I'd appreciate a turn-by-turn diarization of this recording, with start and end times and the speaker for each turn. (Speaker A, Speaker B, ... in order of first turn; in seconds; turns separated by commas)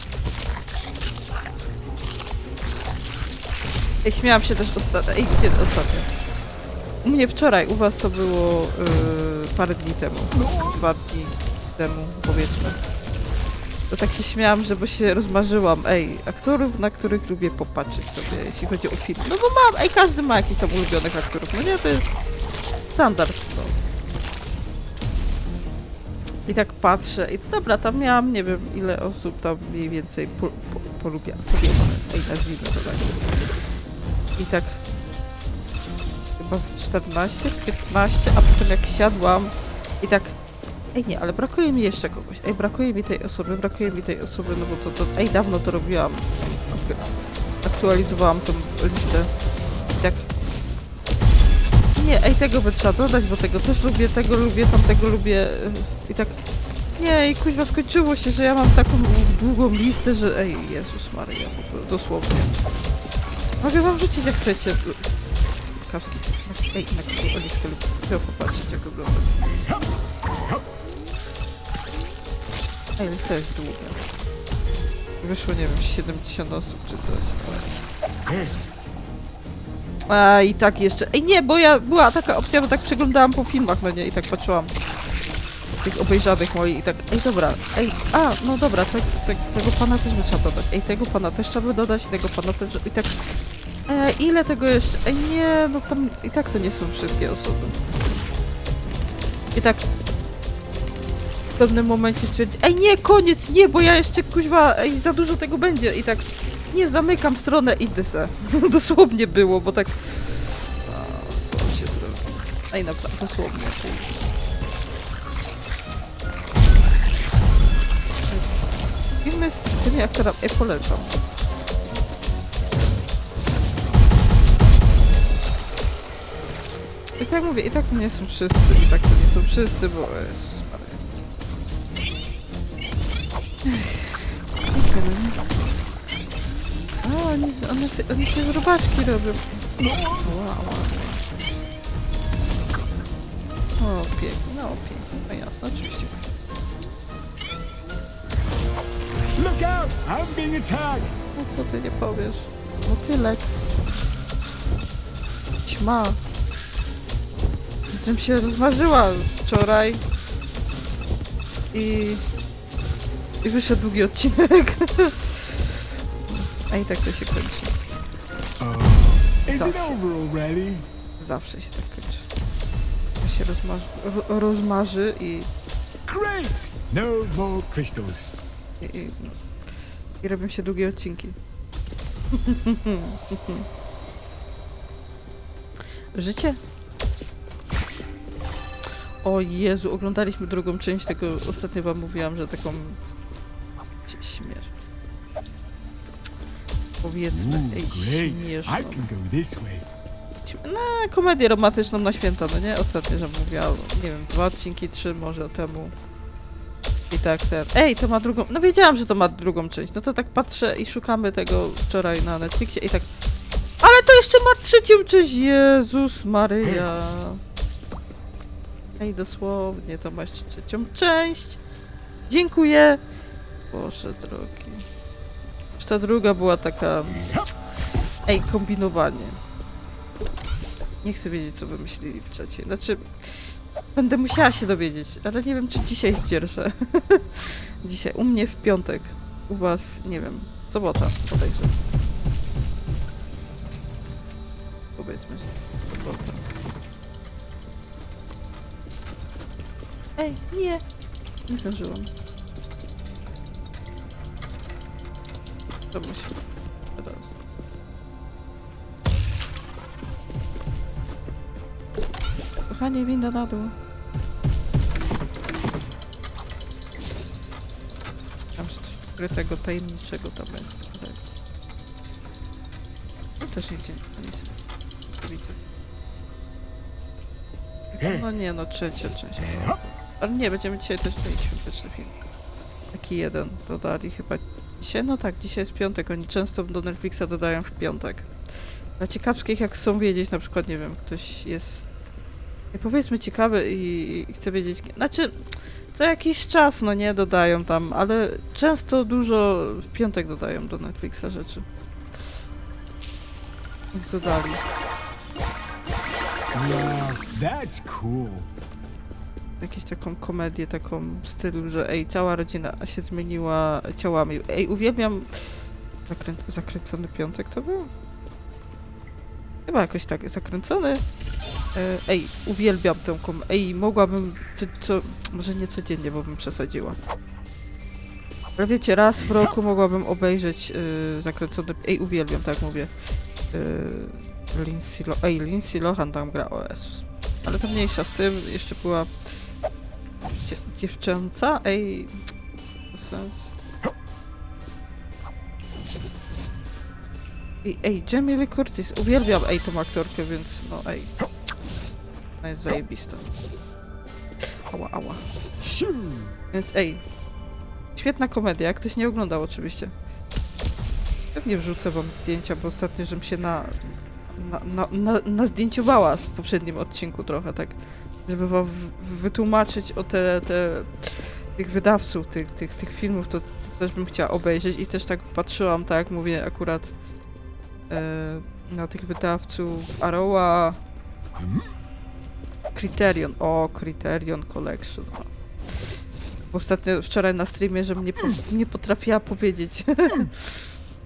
Speaker A: 4.0-6.1, Speaker A: 7.0-12.8, Speaker B: 10.3-10.8, Speaker A: 13.9-22.1, Speaker A: 22.9-23.8, Speaker A: 26.5-33.5, Speaker A: 34.4-34.8, Speaker A: 36.4-40.4, Speaker A: 41.0-47.1, Speaker A: 47.6-49.3, Speaker A: 50.0-50.3, Speaker A: 52.0-56.4, Speaker A: 57.0-62.6, Speaker A: 63.6-65.0, Speaker A: 65.8-69.5, Speaker A: 73.0-74.0, Speaker A: 75.2-77.8, Speaker A: 80.1-84.7, Speaker A: 85.8-93.2, Speaker A: 93.9-97.8, Speaker A: 99.5-99.8, Speaker A: 101.6-110.2, Speaker A: 110.8-114.1, Speaker A: 118.3-118.7, Speaker A: 119.2-121.2, Speaker A: 127.2-131.2, Speaker A: 133.7-135.4, Speaker A: 137.0-139.7, Speaker B: 139.8-140.3, Speaker A: 140.2-141.3, Speaker A: 143.8-146.3, Speaker B: 149.3-151.2, Speaker A: 151.3-153.5, Speaker A: 155.6-156.2, Speaker A: 157.9-160.0, Speaker A: 161.7-162.2, Speaker A: 163.4-167.7, Speaker B: 168.6-170.9, Speaker A: 169.5-170.0, Speaker A: 171.2-172.3, Speaker A: 173.2-175.5, Speaker B: 176.1-178.3, Speaker A: 178.8-179.4, Speaker A: 180.2-181.4, Speaker A: 182.3-183.7, Speaker A: 186.1-186.6, Speaker A: 189.2-193.0, Speaker A: 194.1-194.7, Speaker A: 197.0-199.1, Speaker B: 197.3-199.9, Speaker A: 200.5-205.9, Speaker A: 207.1-213.1, Speaker A: 213.8-217.4, Speaker A: 219.0-221.6, Speaker A: 222.3-223.0, Speaker A: 223.7-224.8, Speaker A: 225.8-227.4, Speaker A: 228.3-229.4, Speaker A: 231.0-241.8, Speaker A: 245.0-246.4, Speaker A: 250.2-250.8, Speaker A: 251.5-252.1, Speaker A: 255.9-256.4, Speaker A: 256.9-257.4, Speaker A: 262.7-263.7, Speaker A: 268.6-271.2, Speaker A: 273.4-274.5, Speaker A: 275.2-275.6, Speaker A: 277.9-282.1, Speaker A: 282.9-288.3, Speaker A: 289.0-291.9, Speaker A: 292.7-295.3, Speaker A: 295.9-301.6, Speaker A: 303.9-304.6, Speaker B: 306.5-308.5, Speaker A: 309.6-315.3, Speaker A: 316.1-317.9, Speaker A: 319.7-321.0, Speaker A: 321.8-327.0, Speaker A: 328.6-332.9, Speaker A: 333.5-339.1, Speaker A: 340.4-342.1, Speaker A: 342.9-343.5, Speaker A: 347.6-351.1, Speaker A: 352.4-353.3, Speaker A: 354.7-355.2, Speaker B: 355.6-356.4, Speaker A: 356.5-357.0, Speaker A: 358.0-359.9, Speaker A: 361.3-376.9, Speaker A: 377.9-380.8, Speaker B: 381.4-381.7, Speaker A: 382.8-385.3, Speaker A: 386.5-390.7